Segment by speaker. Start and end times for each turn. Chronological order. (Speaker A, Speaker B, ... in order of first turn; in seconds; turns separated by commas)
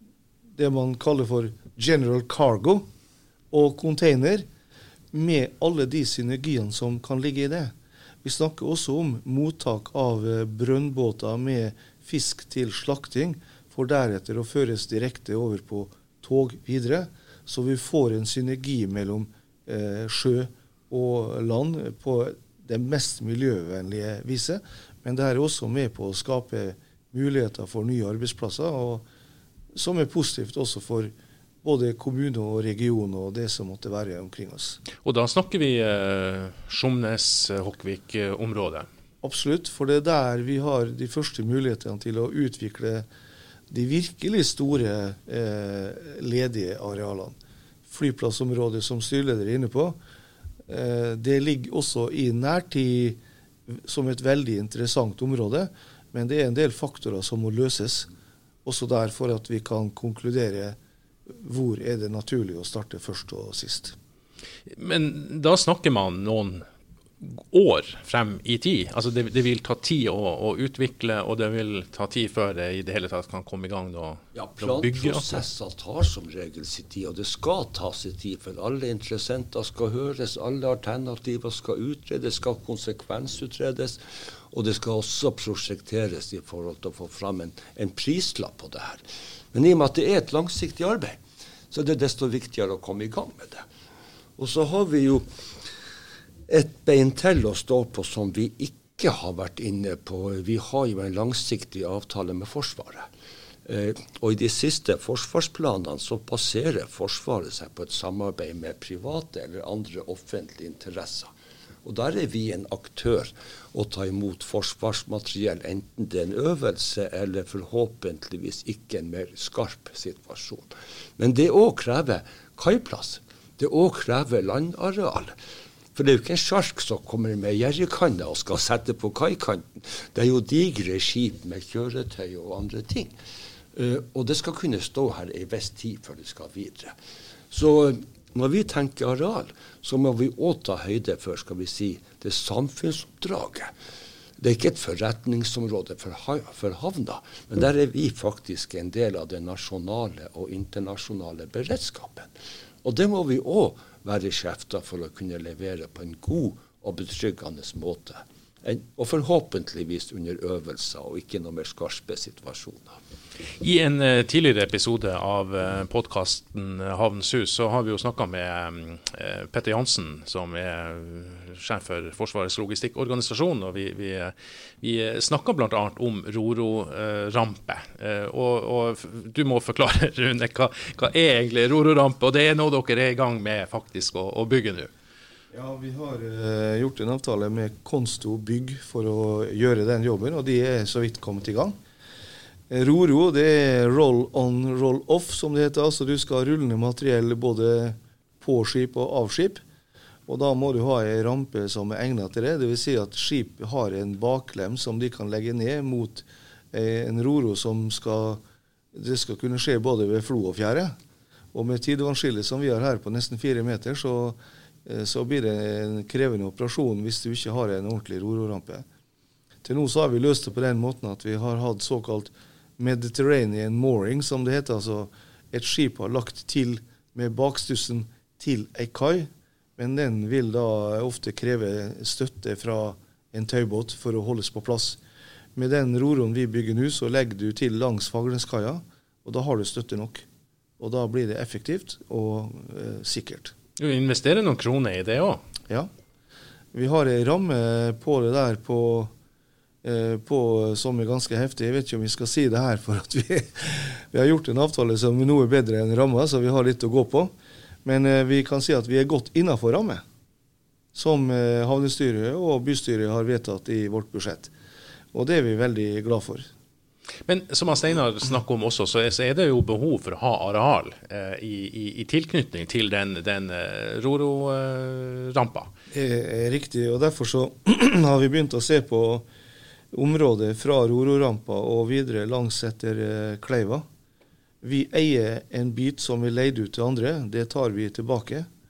Speaker A: 0.6-2.9, Speaker A: 3.5-4.5, Speaker A: 5.1-29.1, Speaker A: 29.8-31.1, Speaker A: 31.6-34.8, Speaker B: 35.0-38.9, Speaker A: 39.2-43.1, Speaker A: 43.7-47.4, Speaker A: 47.9-50.0, Speaker A: 50.7-58.1, Speaker A: 58.6-60.8, Speaker A: 61.3-64.0, Speaker B: 64.7-66.7, Speaker B: 67.2-75.3, Speaker C: 74.3-84.0, Speaker C: 84.5-89.0, Speaker C: 89.5-91.2, Speaker C: 91.7-93.7, Speaker C: 94.4-95.2, Speaker C: 96.5-103.1, Speaker C: 103.7-111.3, Speaker C: 111.8-125.3, Speaker C: 126.0-133.1, Speaker C: 133.7-136.9, Speaker C: 137.5-143.7, Speaker C: 144.4-152.3, Speaker C: 152.8-163.0, Speaker B: 163.6-184.9, Speaker A: 185.5-191.8, Speaker A: 192.7-199.6, Speaker A: 200.3-208.4, Speaker A: 208.9-210.9, Speaker A: 211.5-218.8, Speaker A: 219.6-235.0, Speaker A: 235.6-240.3, Speaker A: 240.8-243.5, Speaker B: 243.8-245.4, Speaker A: 246.7-249.1, Speaker A: 249.8-257.3, Speaker A: 257.9-260.0, Speaker A: 260.9-264.5, Speaker A: 265.1-266.5, Speaker B: 267.3-275.7, Speaker A: 275.9-279.3, Speaker A: 279.9-283.9, Speaker A: 284.6-288.5